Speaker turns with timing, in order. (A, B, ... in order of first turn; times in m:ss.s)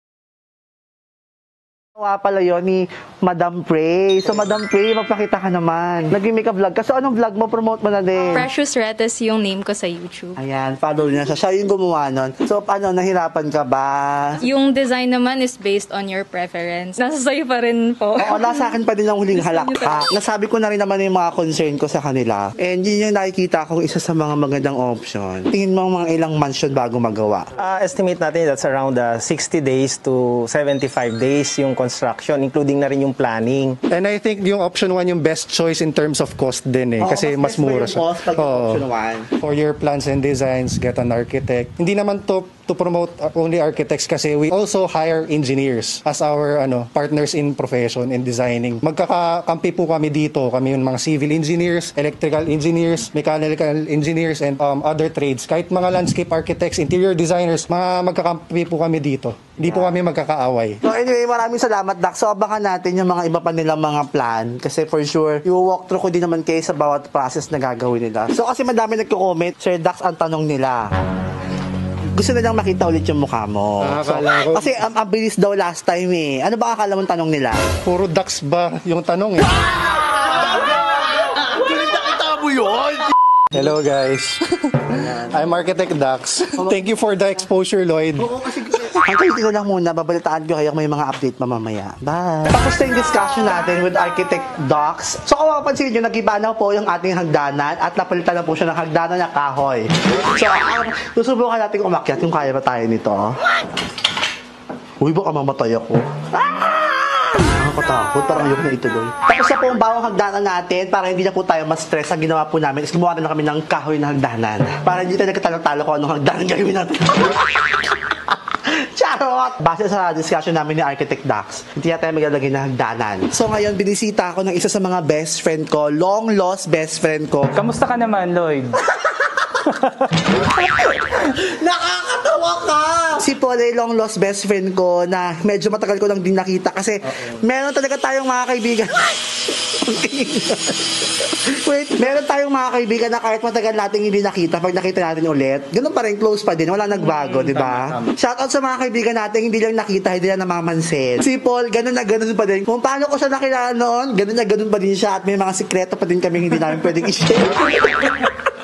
0:02.0-0:08.5 A
0:08.2-0:10.4 B
0:10.4-0:14.4 A
0:14.4-0:20.1 B
0:18.2-0:27.5 A
0:27.5-0:33.8 C
0:33.9-0:38.8 D
0:37.0-0:39.3 A
0:39.4-1:00.8 D
0:59.7-0:59.9 A
1:00.8-1:10.9 A
1:12.1-1:17.6 A
1:13.8-1:14.7 D
1:17.8-1:19.5 D
1:19.8-1:23.0 A
1:23.5-1:28.2 D
1:28.2-1:43.4 A
1:45.0-2:07.6 A
2:07.5-2:08.8 E
2:09.6-2:10.1 E
2:10.4-2:38.3 A
2:27.1-2:28.1 E